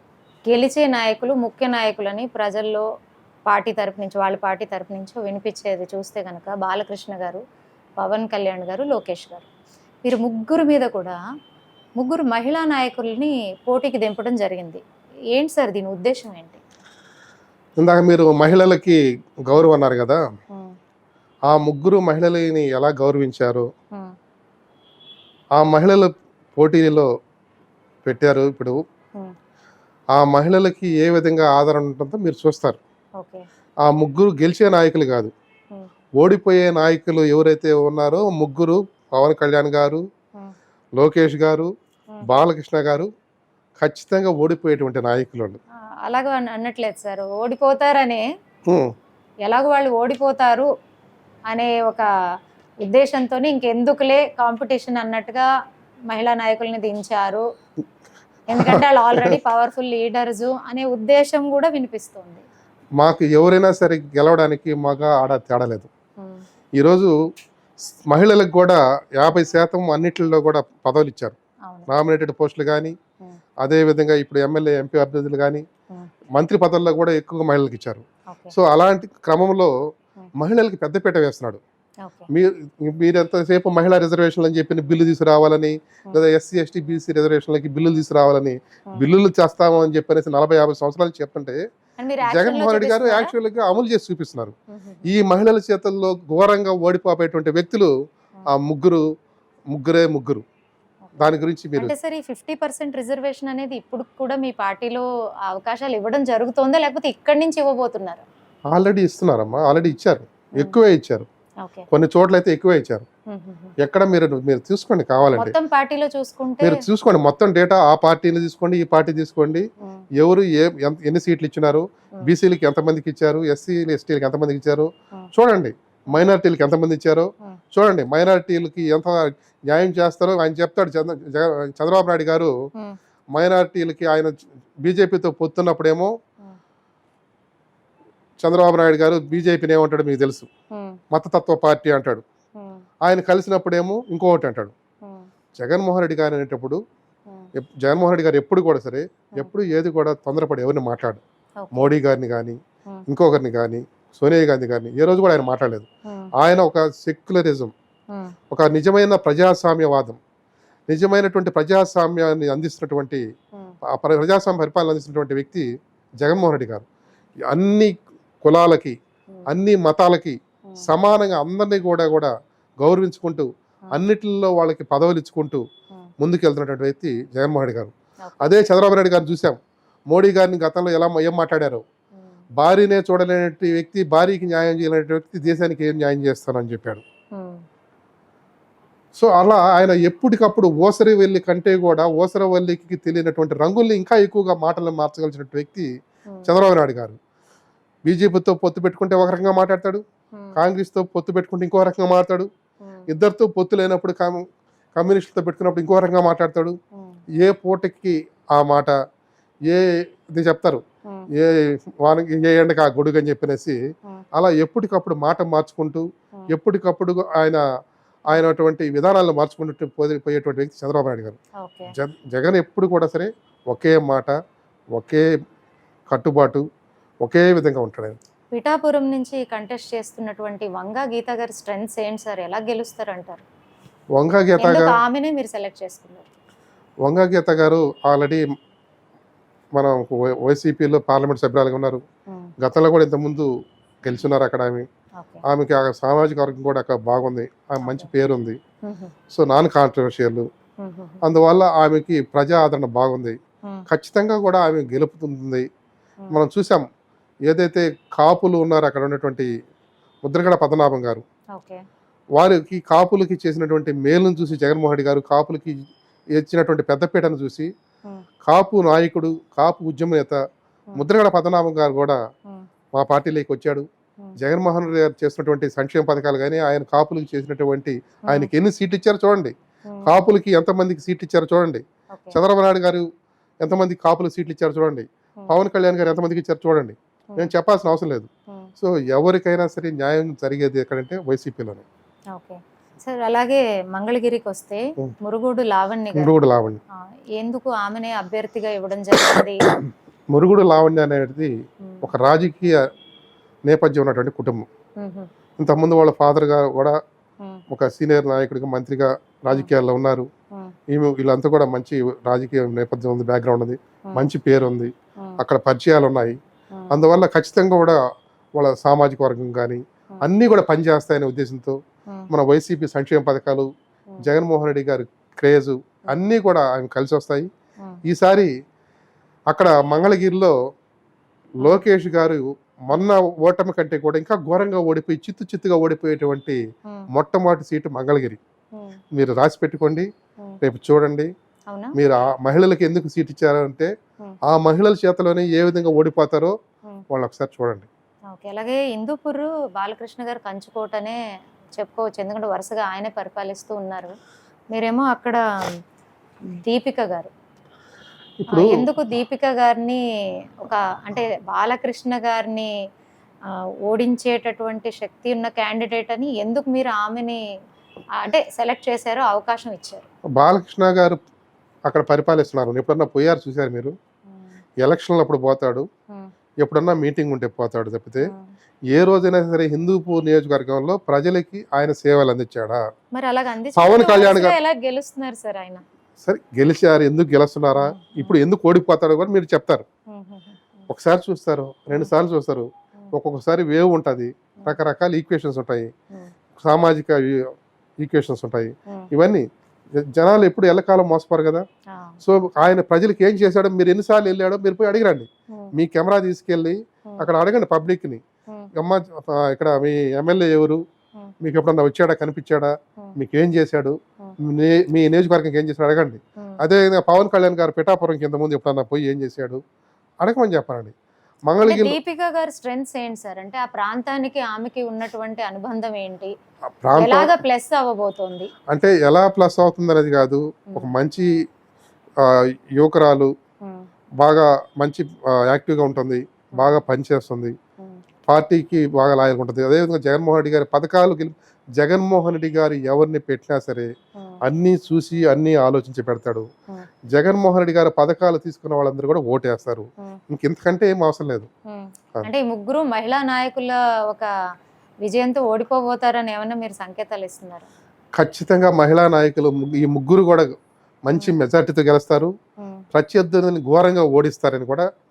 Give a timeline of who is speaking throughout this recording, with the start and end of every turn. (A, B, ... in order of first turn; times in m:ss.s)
0:00.5-0:02.8 A
0:03.5-0:07.4 A
0:08.0-0:09.5 A
0:10.0-0:11.2 A
0:12.0-0:14.8 A
0:15.3-0:16.6 A
0:17.8-0:20.2 B
0:21.5-0:23.7 B
0:25.6-0:27.1 B
0:28.0-0:28.8 B
0:30.1-0:32.8 B
0:33.2-0:33.4 A
0:33.8-0:35.3 B
0:36.2-0:40.0 B
0:41.0-0:41.7 B
0:42.3-0:43.1 B
0:43.8-0:45.6 B
0:46.0-0:48.2 A
0:49.4-0:50.7 A
0:51.5-0:52.1 A
0:52.8-0:55.5 A
0:56.1-0:57.4 A
0:58.5-1:02.4 A
0:58.6-0:59.4 B
1:03.0-1:05.9 B
1:06.8-1:07.1 B
1:08.1-1:11.4 B
1:11.9-1:12.9 B
1:13.6-1:15.6 B
1:16.4-1:19.7 B
1:18.3-1:18.6 A
1:20.4-1:21.6 B
1:22.3-1:31.6 B
1:32.0-1:33.3 A
1:32.3-1:34.6 B
1:34.8-1:35.1 A
1:35.1-1:37.9 B
1:38.5-1:39.0 B
1:39.7-1:40.4 B
1:41.0-1:48.2 A
1:41.2-1:42.0 B
1:48.7-1:51.3 B
1:51.9-1:53.1 B
1:53.3-1:53.7 A
1:53.8-1:55.6 B
1:55.4-1:56.8 A
1:56.6-1:59.6 B
2:00.2-2:12.5 B
2:13.3-2:16.1 B
2:18.4-2:20.5 B
2:20.7-2:21.0 A
2:21.1-2:22.2 B
2:23.0-2:24.7 B
2:25.0-2:25.3 A
2:25.6-2:26.8 B
2:27.6-2:31.2 B
2:31.6-2:31.9 A
2:31.7-2:37.7 B
2:38.5-2:40.2 B
2:40.9-2:43.2 B
2:43.9-2:45.7 B
2:46.2-2:46.9 B
2:47.5-2:47.9 B
2:48.4-2:48.9 B
2:49.5-2:55.6 B
2:56.2-2:59.6 B
3:00.1-3:01.8 B
3:02.6-3:07.0 B
3:07.3-3:07.6 A
3:09.2-3:15.9 B
3:16.5-3:17.2 B
3:18.1-3:20.0 B
3:20.6-3:22.5 B
3:22.8-3:23.1 A
3:23.1-3:26.8 B
3:27.0-3:27.2 A
3:27.4-3:29.0 B
3:29.7-3:30.8 B
3:31.4-3:33.8 B
3:34.4-3:37.6 B
3:38.3-3:41.4 B
3:41.6-3:41.9 A
3:41.9-3:44.4 B
3:45.0-3:45.2 B
3:46.1-3:46.6 B
3:47.2-3:48.2 B
3:48.5-3:53.4 A
3:54.2-3:55.0 B
3:54.6-3:56.3 A
3:57.0-3:58.4 B
3:59.8-4:02.0 B
4:02.6-4:03.5 B
4:04.0-4:04.8 B
4:05.5-4:08.6 B
4:07.8-4:08.1 A
4:08.9-4:09.1 A
4:09.3-4:10.5 B
4:10.8-4:11.2 A
4:11.2-4:13.4 B
4:13.9-4:15.7 B
4:16.3-4:16.8 B
4:17.5-4:19.5 B
4:20.2-4:21.2 B
4:21.6-4:21.8 A
4:22.4-4:25.8 B
4:26.3-4:27.7 B
4:28.4-4:30.4 B
4:31.0-4:32.2 B
4:32.9-4:33.9 B
4:34.4-4:39.5 B
4:40.0-4:43.0 B
4:42.1-4:42.4 A
4:43.6-4:51.8 B
4:52.4-4:56.3 A
4:56.2-4:56.8 B
4:57.4-4:59.7 A
5:00.3-5:01.5 B
5:01.8-5:02.1 A
5:02.0-5:02.8 B
5:03.7-5:04.7 B
5:05.0-5:05.3 A
5:05.6-5:07.0 B
5:07.7-5:10.3 B
5:10.9-5:16.4 B
5:16.7-5:17.0 A
5:16.9-5:18.0 B
5:18.6-5:21.8 B
5:22.3-5:23.7 B
5:24.2-5:27.5 B
5:28.1-5:28.5 B
5:29.5-5:30.5 B
5:31.6-5:36.6 B
5:37.1-5:38.4 B
5:39.1-5:40.1 B
5:40.6-5:41.3 B
5:41.7-5:42.0 A
5:42.0-5:43.9 B
5:44.5-5:46.6 B
5:47.1-5:47.9 B
5:48.3-5:51.2 A
5:51.8-5:54.1 A
5:54.7-5:55.8 A
5:56.4-5:57.3 A
5:58.5-5:58.8 B
5:58.5-6:00.0 A
6:00.6-6:02.7 A
6:03.5-6:07.4 A
6:08.2-6:10.1 A
6:10.4-6:11.2 B
6:11.9-6:14.0 B
6:14.3-6:14.6 A
6:14.8-6:15.9 B
6:16.6-6:18.3 B
6:18.2-6:18.5 A
6:18.9-6:22.8 B
6:23.2-6:25.8 A
6:23.8-6:24.6 B
6:26.2-6:29.9 B
6:27.8-6:28.4 A
6:30.1-6:30.6 A
6:30.9-6:35.9 B
6:36.6-6:39.5 B
6:40.0-6:41.6 B
6:41.9-6:42.2 A
6:42.2-6:48.2 B
6:48.8-6:50.8 B
6:51.4-6:59.6 B
7:00.2-7:00.9 B
7:01.5-7:02.0 B
7:01.7-7:06.3 A
7:06.8-7:07.4 B
7:07.0-7:08.5 A
7:08.7-7:11.3 B
7:12.2-7:13.3 B
7:14.2-7:17.6 B
7:16.6-7:16.8 A
7:18.3-7:23.9 B
7:24.4-7:26.5 B
7:27.1-7:31.5 B
7:31.7-7:34.3 A
7:35.0-7:37.7 A
7:38.2-7:40.5 B
7:41.1-7:42.3 B
7:42.9-7:44.8 B